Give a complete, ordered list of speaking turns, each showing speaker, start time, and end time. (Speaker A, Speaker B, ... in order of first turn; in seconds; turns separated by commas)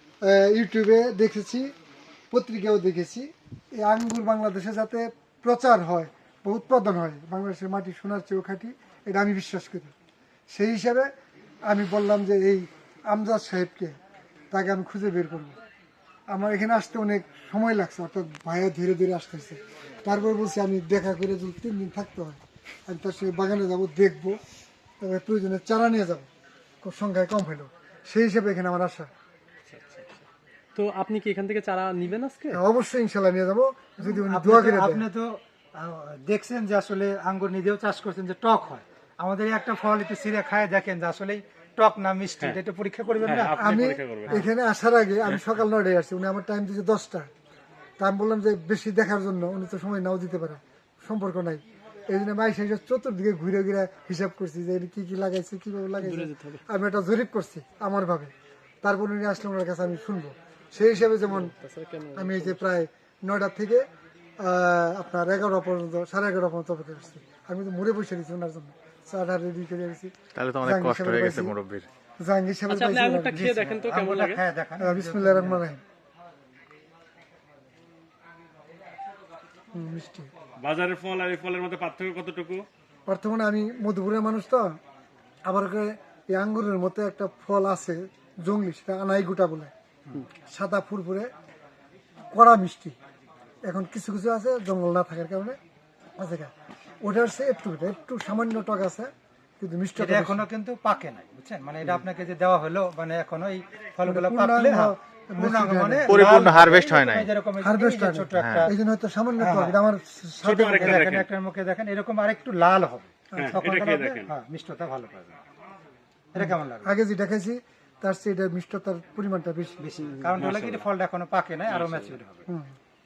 Speaker A: 0.2-1.7, Speaker A: 2.3-9.9, Speaker A: 10.5-11.1, Speaker A: 11.7-13.9, Speaker A: 14.5-15.6, Speaker A: 16.3-24.4, Speaker A: 25.0-26.3, Speaker A: 26.8-29.1, Speaker B: 29.7-30.2, Speaker B: 30.8-32.6, Speaker A: 32.5-35.0, Speaker C: 34.0-44.5, Speaker D: 43.2-44.4, Speaker A: 43.5-47.3, Speaker A: 48.0-58.3, Speaker B: 56.0-56.6, Speaker A: 58.8-61.5, Speaker B: 61.2-62.6, Speaker A: 62.1-63.8, Speaker A: 64.4-70.1, Speaker E: 70.3-71.9, Speaker A: 70.6-71.5, Speaker A: 72.2-73.6, Speaker B: 72.7-74.4, Speaker C: 73.3-75.6, Speaker A: 74.8-75.8, Speaker A: 79.7-80.3, Speaker D: 80.6-82.6, Speaker A: 83.1-84.8, Speaker A: 85.5-89.7, Speaker A: 90.4-91.3, Speaker A: 92.3-92.9, Speaker A: 93.7-95.6, Speaker A: 96.2-96.5, Speaker A: 97.0-100.5, Speaker C: 100.0-108.7, Speaker A: 104.0-106.1, Speaker E: 106.1-107.3, Speaker A: 107.6-111.0, Speaker E: 108.3-108.7, Speaker C: 109.4-109.8, Speaker D: 110.4-111.3, Speaker C: 110.6-115.4, Speaker A: 113.3-113.6, Speaker D: 113.4-114.3, Speaker C: 116.3-116.9, Speaker A: 116.4-119.8, Speaker C: 119.8-122.4, Speaker D: 120.4-120.9, Speaker D: 121.7-122.2, Speaker A: 122.5-122.7